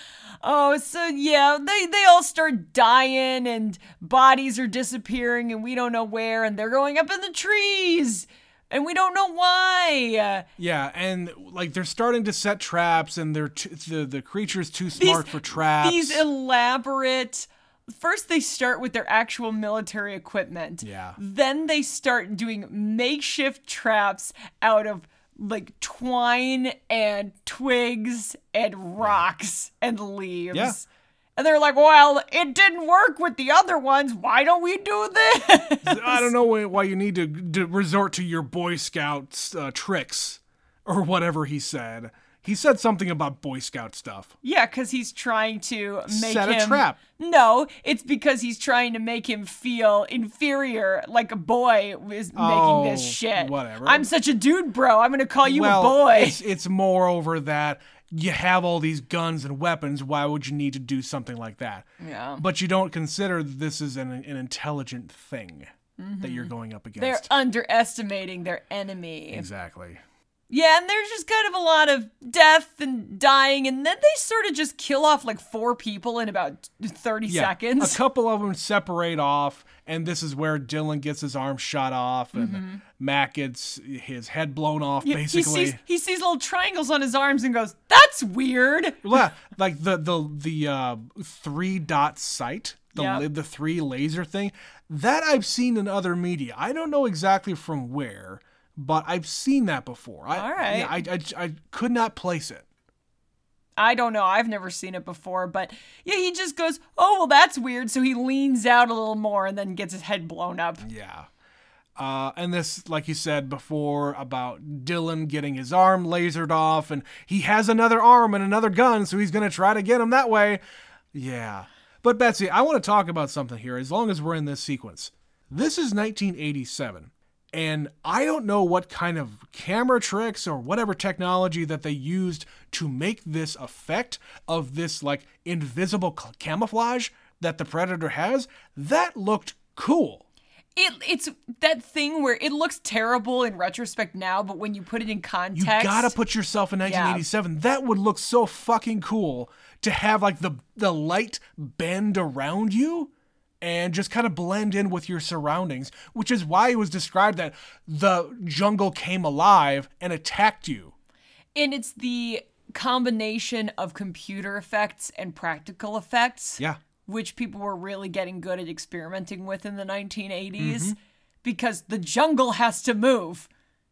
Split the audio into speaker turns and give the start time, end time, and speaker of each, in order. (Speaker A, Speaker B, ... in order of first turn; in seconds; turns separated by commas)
Speaker A: 0.4-10.5, Speaker B: 10.6-16.2, Speaker A: 15.0-36.3, Speaker B: 20.8-21.2, Speaker B: 35.8-44.3, Speaker A: 44.4-56.4, Speaker B: 46.1-47.0, Speaker B: 52.4-54.1, Speaker B: 55.4-61.9, Speaker A: 62.0-62.4, Speaker B: 62.4-65.7, Speaker A: 66.0-69.5, Speaker B: 66.2-67.3, Speaker B: 69.3-70.0, Speaker A: 70.5-78.0, Speaker B: 77.3-85.8, Speaker A: 82.3-82.8, Speaker A: 85.0-89.0, Speaker B: 89.0-102.7, Speaker A: 93.0-93.2, Speaker A: 100.3-101.0, Speaker A: 103.8-110.8, Speaker B: 110.8-111.3, Speaker B: 112.0-120.6, Speaker B: 121.1-140.2, Speaker A: 140.8-146.2, Speaker B: 145.6-153.1, Speaker A: 146.8-147.2, Speaker B: 153.6-160.9, Speaker A: 161.6-173.5, Speaker B: 170.6-171.0